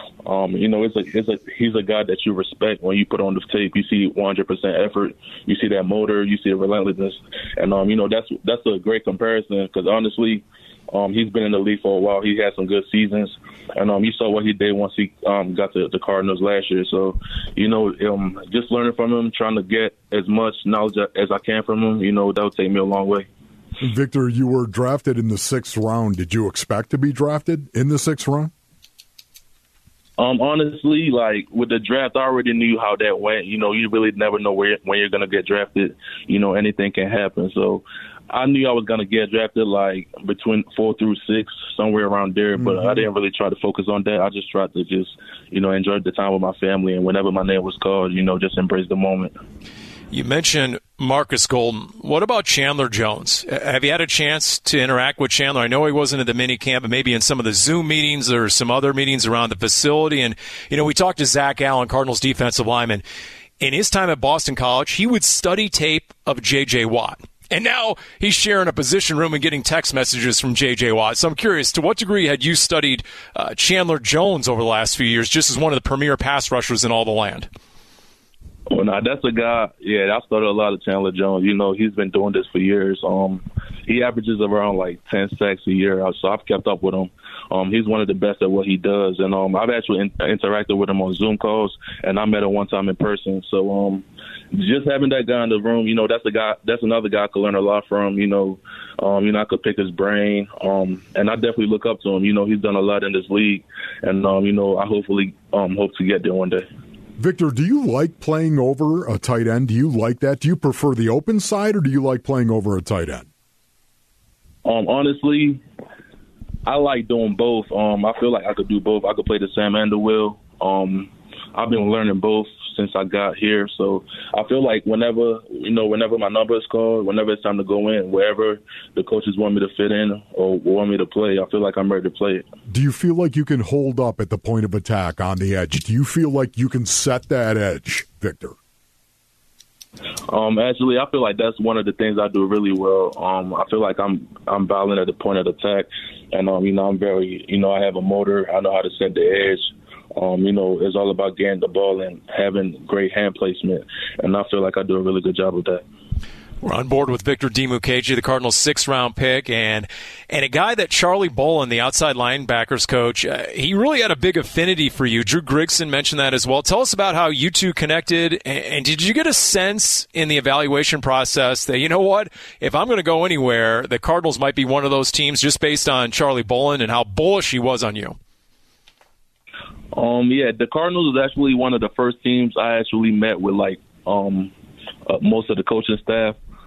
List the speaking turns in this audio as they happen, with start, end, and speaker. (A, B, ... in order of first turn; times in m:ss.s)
0:00.2-0:23.3 A
0:23.8-0:28.5 B
0:30.2-0:49.3 A
0:42.6-0:43.0 B
0:50.1-1:03.0 C
1:03.6-1:17.5 C
1:18.7-1:46.6 A
1:47.2-1:53.3 B
1:54.6-1:55.6 A
1:56.6-2:12.4 A
2:12.7-2:18.5 B
2:20.3-2:35.8 A
2:36.6-2:58.2 C
2:59.9-3:04.5 A
3:05.1-3:06.4 A